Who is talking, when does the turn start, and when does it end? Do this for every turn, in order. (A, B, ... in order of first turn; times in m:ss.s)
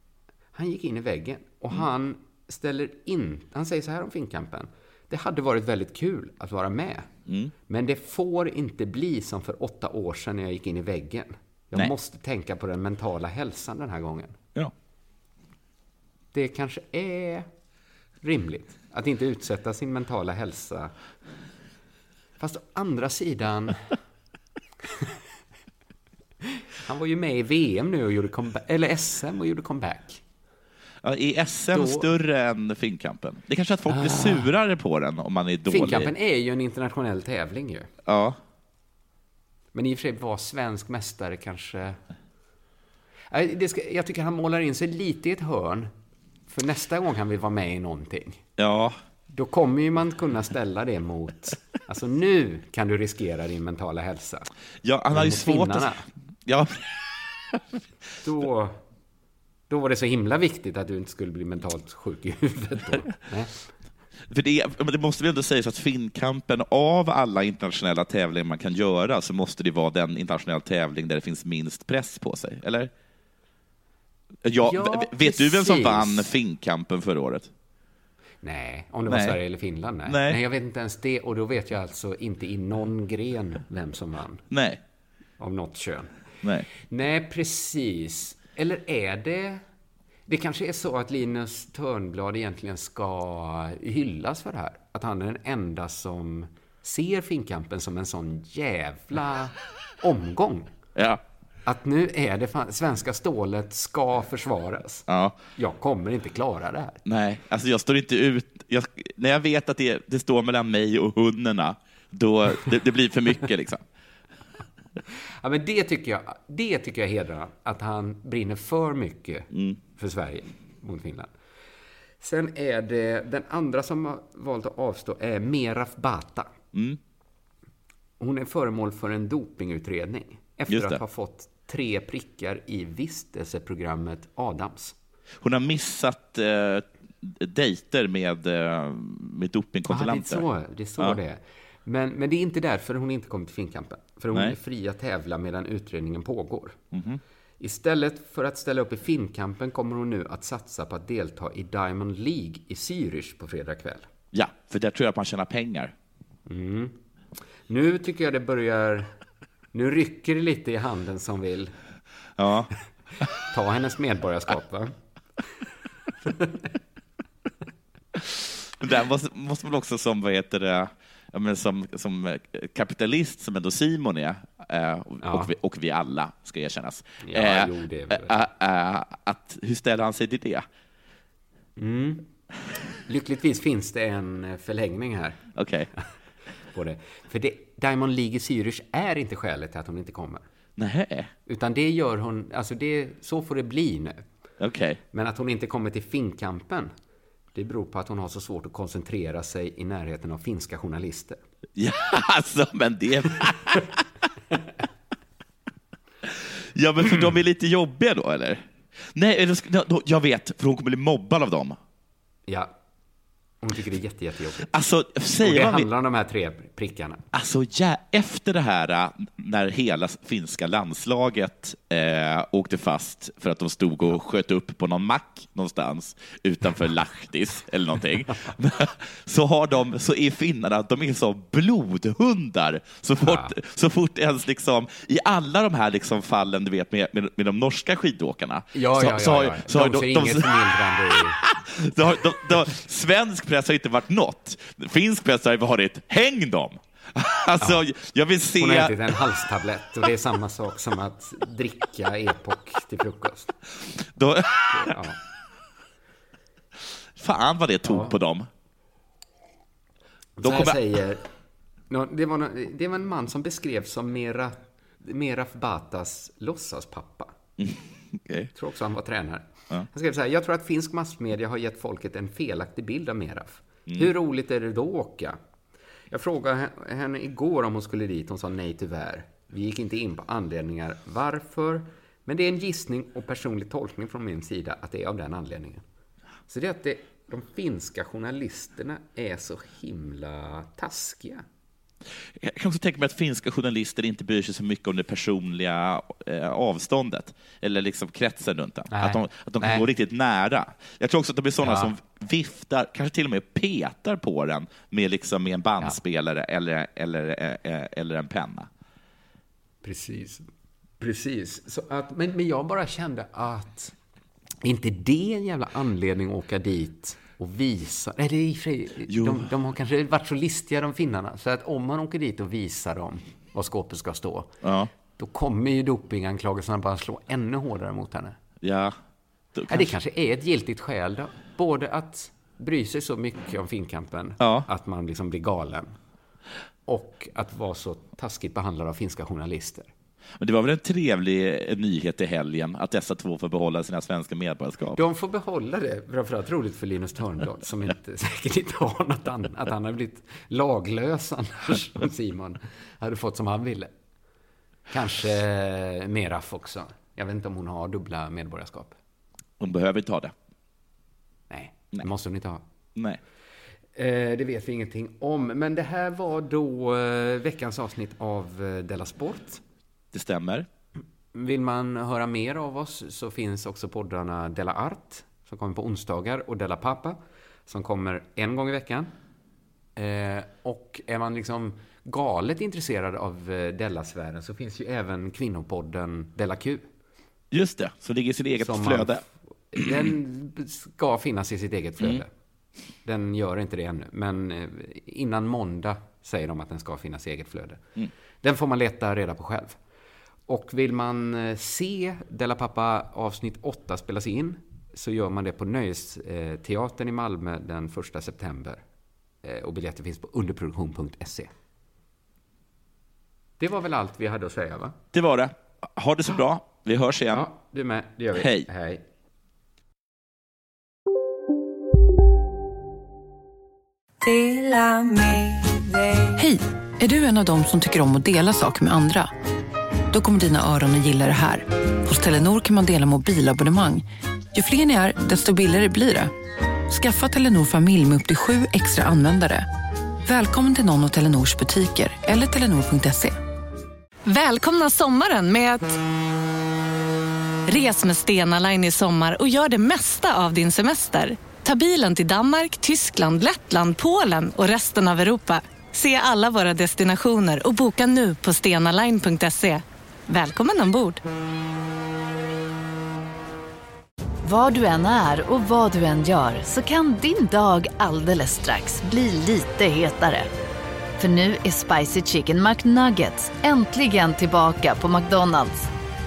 0:00.5-0:07.1 A
0:07.3-0:07.5 B
0:07.7-0:14.4 A
0:16.3-0:17.5 A
0:18.2-0:20.9 A
0:22.4-0:24.0 A
0:26.8-0:30.2 A
0:31.0-0:36.1 B
0:31.7-0:32.0 A
0:33.9-0:34.5 A
0:35.7-0:37.9 A
0:38.1-0:38.4 B
0:39.7-0:42.0 A
0:43.3-0:45.9 A
0:46.5-0:48.4 A
0:48.6-0:49.0 B
0:49.3-0:54.5 A
0:54.8-0:55.9 B
0:55.1-0:56.0 A
0:56.4-0:57.6 B
0:58.2-0:58.8 A
0:59.7-1:03.6 A
1:04.3-1:12.9 B
1:14.4-1:17.5 B
1:14.6-1:16.3 A
1:18.4-1:24.4 A
1:19.1-1:19.4 B
1:20.0-1:20.4 B
1:24.5-1:24.8 B
1:25.4-1:26.2 A
1:26.8-1:29.6 A
1:30.3-1:40.7 A
1:41.6-1:45.0 A
1:45.1-1:45.4 B
1:45.6-1:47.0 A
1:47.0-1:53.8 B
1:55.4-2:01.3 A
2:02.2-2:06.5 A
2:08.2-2:15.0 A
2:10.7-2:11.0 B
2:15.4-2:20.4 B
2:19.9-2:26.8 A
2:26.9-2:27.2 B
2:27.6-2:34.1 A
2:34.3-2:35.9 B
2:36.5-2:37.0 A
2:37.7-2:39.1 A
2:39.7-2:41.7 A
2:42.4-2:42.7 B
2:43.5-2:44.9 A
2:48.2-3:00.6 B
2:55.2-2:55.5 A
2:57.2-2:58.3 A
3:01.8-3:02.3 A
3:03.1-3:05.4 A
3:05.6-3:05.9 B
3:06.7-3:10.4 A
3:10.8-3:11.3 B
3:11.5-3:14.2 A
3:14.6-3:15.0 B
3:15.1-3:16.9 A
3:17.5-3:21.4 A
3:21.8-3:23.9 B
3:26.7-3:28.6 B
3:29.1-3:31.8 B
3:33.6-3:34.7 A
3:34.7-3:35.9 B
3:35.4-3:37.2 A
3:37.3-4:00.7 B
3:53.2-3:53.5 A
3:58.7-4:01.4 A
4:01.4-4:09.2 B
4:08.6-4:13.5 A
4:14.1-4:15.0 B
4:14.7-4:15.2 A
4:17.2-4:18.5 B
4:17.8-4:18.2 A
4:20.4-4:21.2 A
4:20.4-4:20.8 B
4:21.9-4:27.3 A
4:27.6-4:28.5 B
4:28.5-4:35.4 A
4:36.1-4:45.8 A
4:46.5-4:51.4 A
4:52.4-5:08.7 B
4:58.9-4:59.8 A
5:01.6-5:01.9 A
5:09.8-5:10.4 A
5:11.0-5:13.9 A
5:14.6-5:24.5 A
5:19.1-5:19.5 B
5:24.6-5:24.9 B
5:25.2-5:28.4 A
5:28.6-5:29.0 B
5:29.5-5:29.9 B
5:29.7-5:35.9 A
5:34.4-5:34.7 B
5:36.9-5:39.9 A
5:40.4-5:45.0 B
5:44.9-5:53.9 A
5:54.9-5:59.0 A
5:59.6-6:00.3 B
6:01.5-6:02.6 A
6:04.0-6:09.6 A
6:10.1-6:10.7 B
6:11.3-6:19.1 A
6:20.0-6:26.9 A
6:27.5-6:29.2 B
6:28.6-6:29.2 A
6:29.7-6:32.3 A
6:33.0-6:37.8 A
6:38.4-6:39.8 A
6:40.5-6:48.8 A
6:49.4-6:51.5 A
6:53.6-6:55.0 A
6:55.1-6:57.4 B
6:57.3-6:59.0 A
6:58.4-6:58.6 B
7:04.3-7:09.3 C
7:10.1-7:16.3 C
7:16.9-7:19.7 C
7:20.2-7:23.4 C
7:24.2-7:26.0 D
7:27.7-7:41.2 D
7:44.4-7:50.5 E
7:51.2-7:55.9 E